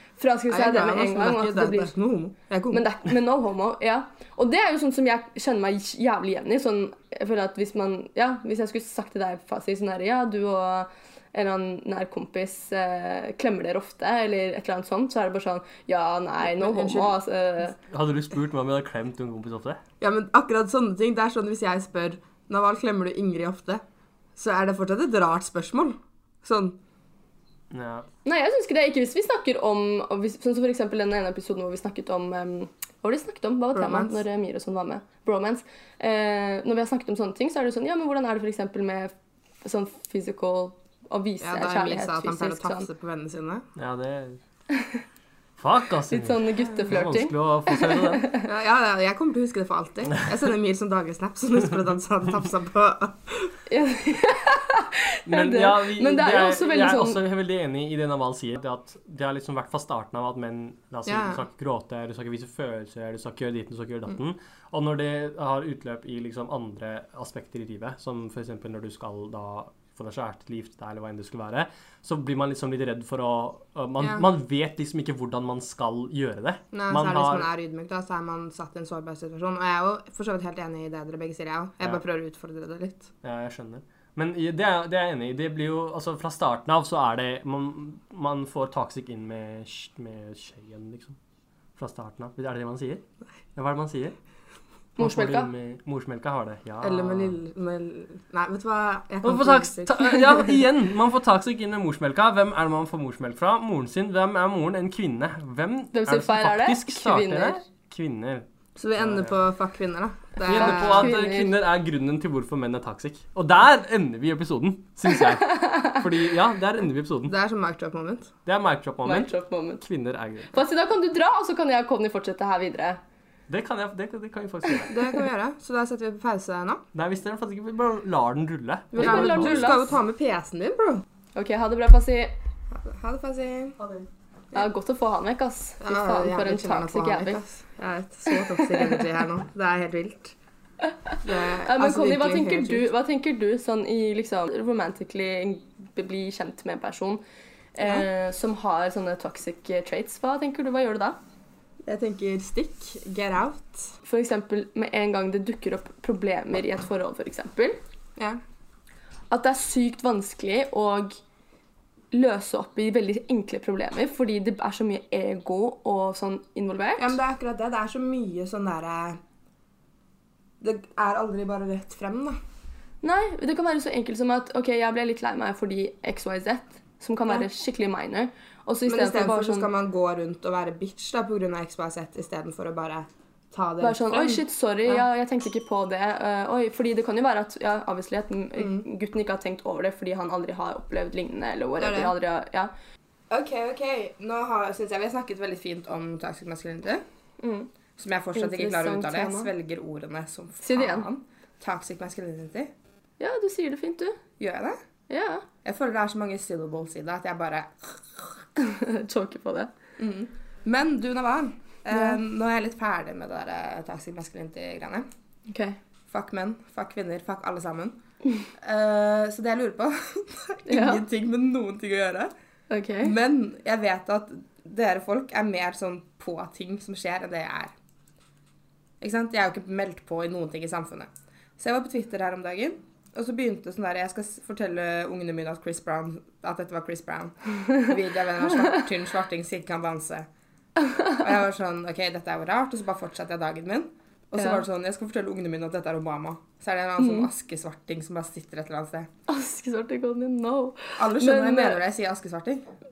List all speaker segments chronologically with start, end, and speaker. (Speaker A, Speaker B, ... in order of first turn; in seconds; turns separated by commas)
Speaker A: 0.2-1.9, Speaker B: 0.5-2.8, Speaker A: 2.7-17.8, Speaker B: 16.4-17.1, Speaker C: 17.9-19.8, Speaker B: 20.0-23.8, Speaker B: 24.4-26.8, Speaker C: 27.7-28.1, Speaker A: 28.2-39.1, Speaker B: 33.7-34.2, Speaker A: 39.6-42.9, Speaker B: 41.4-43.6, Speaker C: 43.8-44.4, Speaker A: 44.7-45.0, Speaker C: 45.6-48.3, Speaker A: 46.1-48.5, Speaker B: 48.4-53.5, Speaker A: 53.7-57.2, Speaker C: 55.3-77.5, Speaker B: 61.0-61.4, Speaker B: 74.0-74.2, Speaker B: 76.7-83.1, Speaker C: 83.2-91.2, Speaker C: 91.8-94.1, Speaker A: 95.0-95.5, Speaker C: 95.0-97.4, Speaker B: 96.8-100.4, Speaker C: 99.2-108.5, Speaker A: 105.9-107.6, Speaker B: 108.8-111.1, Speaker C: 109.0-109.3, Speaker C: 110.5-117.3, Speaker A: 110.5-111.5, Speaker A: 115.2-116.0, Speaker B: 117.3-118.3, Speaker C: 118.5-120.6, Speaker A: 119.0-119.8, Speaker A: 120.5-123.0, Speaker C: 123.5-124.9, Speaker B: 124.9-126.8, Speaker C: 126.9-129.8, Speaker B: 128.9-131.0, Speaker A: 129.0-129.9, Speaker A: 131.3-132.3, Speaker B: 132.7-134.7, Speaker A: 134.5-137.4, Speaker B: 135.8-140.3, Speaker A: 138.3-139.0, Speaker A: 141.1-147.2, Speaker B: 141.2-142.9, Speaker A: 147.8-151.2, Speaker B: 151.8-153.9, Speaker A: 154.0-157.8, Speaker A: 159.3-161.2, Speaker A: 162.1-167.2, Speaker B: 167.0-169.2, Speaker B: 170.6-172.3, Speaker A: 173.0-179.7, Speaker B: 178.9-185.0, Speaker A: 183.8-192.7, Speaker B: 188.6-188.8, Speaker B: 191.8-192.1, Speaker B: 193.3-197.0, Speaker A: 197.4-197.7, Speaker B: 198.0-202.7, Speaker A: 198.3-199.5, Speaker A: 200.6-201.1, Speaker A: 203.2-204.2, Speaker B: 204.4-204.8, Speaker A: 205.1-205.4, Speaker B: 205.6-208.3, Speaker A: 208.6-209.7, Speaker B: 210.0-215.0, Speaker A: 211.9-212.2, Speaker A: 215.5-215.8, Speaker B: 216.1-217.9, Speaker B: 218.6-222.3, Speaker A: 220.7-221.0, Speaker A: 222.7-223.1, Speaker B: 223.0-227.7, Speaker B: 229.0-240.3, Speaker B: 241.1-249.1, Speaker A: 247.0-247.3, Speaker A: 249.3-251.8, Speaker B: 251.0-252.6